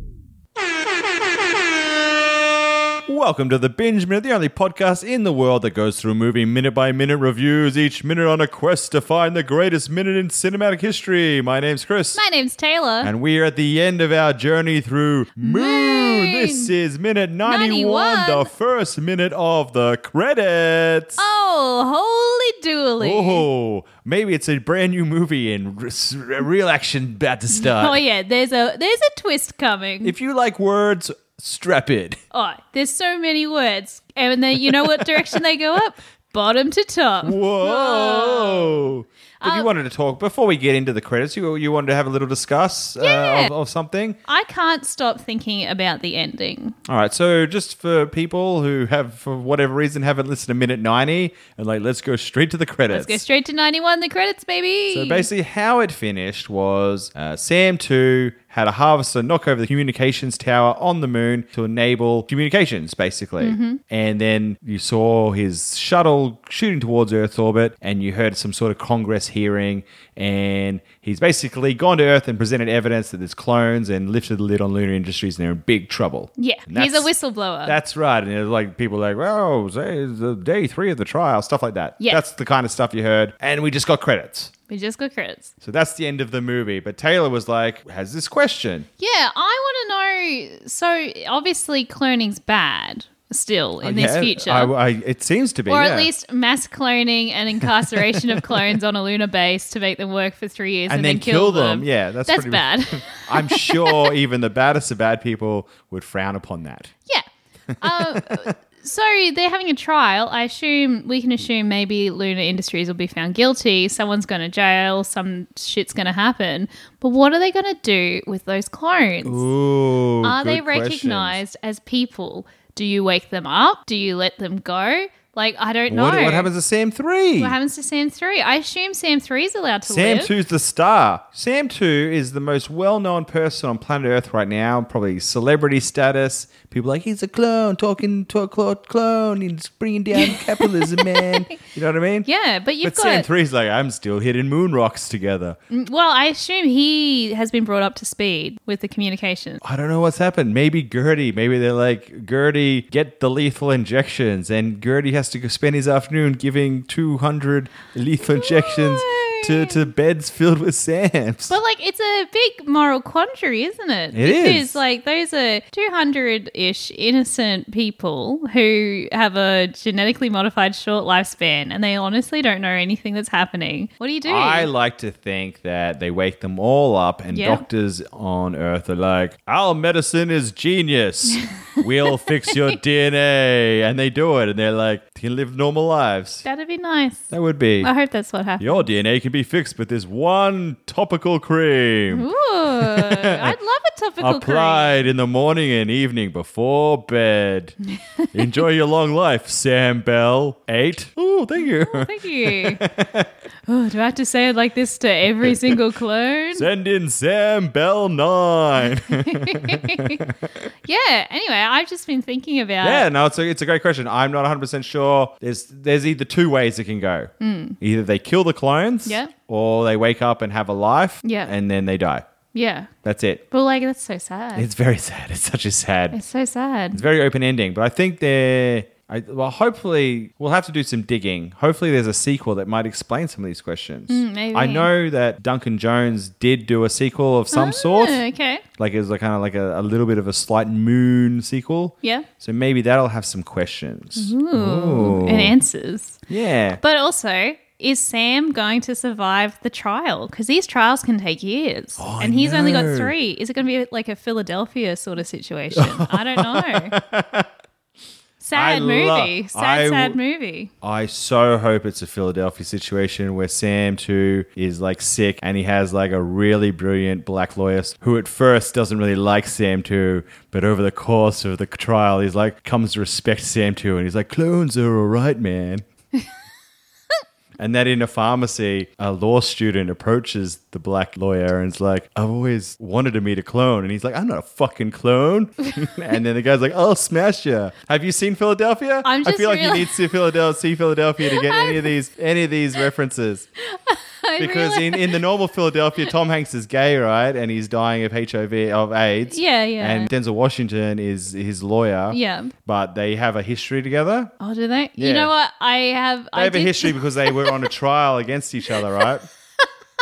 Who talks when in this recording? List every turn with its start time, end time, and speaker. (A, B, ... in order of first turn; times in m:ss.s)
0:03.1-0:12.2 A
0:12.1-0:13.1 B
0:13.0-0:21.2 A
0:15.4-0:16.7 B
0:17.4-0:18.5 B
0:21.2-0:23.5 B
0:23.0-0:28.0 A
0:27.5-0:30.1 B
0:30.0-0:32.2 A
0:32.3-0:39.7 B
0:34.7-0:35.1 A
0:37.2-0:44.2 A
0:43.0-0:43.5 B
0:44.2-0:46.8 B
0:46.9-0:53.2 A
0:52.9-0:55.3 B
0:54.9-1:17.1 A
1:03.4-1:03.8 B
1:16.4-1:17.8 B
1:17.7-1:24.5 A
1:24.7-1:25.5 B
1:25.6-1:28.9 A
1:29.0-1:34.7 B
1:33.8-1:36.1 A
1:35.7-1:44.1 B
1:38.0-1:38.7 A
1:40.9-1:46.9 A
1:47.8-1:48.5 A
1:47.8-1:59.4 B
1:59.2-2:01.4 A
2:00.2-2:06.5 B
2:05.9-2:07.6 A
2:07.4-2:10.3 B
2:09.9-2:22.3 A
2:20.1-2:21.6 B
2:22.3-2:23.3 B
2:22.8-2:25.6 A
2:25.7-2:29.6 B
2:29.6-2:41.6 A
2:38.2-2:39.8 B
2:41.5-2:54.7 B
2:44.1-2:44.8 A
2:54.2-3:06.4 A
2:57.3-2:57.6 B
3:01.8-3:02.3 B
3:06.4-3:07.3 B
3:07.3-3:07.9 A
3:07.8-3:08.8 B
3:08.6-3:12.3 A
3:12.1-3:15.0 B
3:12.8-3:13.6 A
3:14.2-3:17.8 A
3:18.3-3:23.3 A
3:21.6-3:22.8 B
3:23.7-3:26.7 B
3:26.5-3:30.4 A
3:29.1-3:30.2 B
3:30.8-3:33.1 B
3:32.8-3:37.3 A
3:37.4-3:37.8 B
3:37.8-3:42.2 A
3:39.1-3:39.3 B
3:41.2-3:41.5 B
3:42.5-3:42.9 B
3:43.0-3:43.4 A
3:43.5-3:44.7 B
3:44.6-3:46.2 A
3:46.1-3:47.0 B
3:46.9-3:58.2 A
3:54.1-3:54.9 B
3:57.5-3:58.6 B
3:58.8-4:05.6 A
4:02.0-4:02.3 B
4:04.2-4:06.2 B
4:06.3-4:06.8 A
4:06.8-4:16.9 B
4:12.0-4:13.1 A
4:15.8-4:17.5 A
4:18.4-4:20.7 B
4:18.5-4:20.2 A
4:20.8-4:35.8 A
4:37.6-4:53.5 A
4:49.0-4:50.0 B
4:51.2-4:51.9 B
4:53.7-4:55.2 B
4:54.4-5:04.3 A
4:59.3-5:00.1 B
5:02.1-5:02.5 B
5:04.4-5:07.7 B
5:05.0-5:05.3 A
5:06.4-5:09.3 A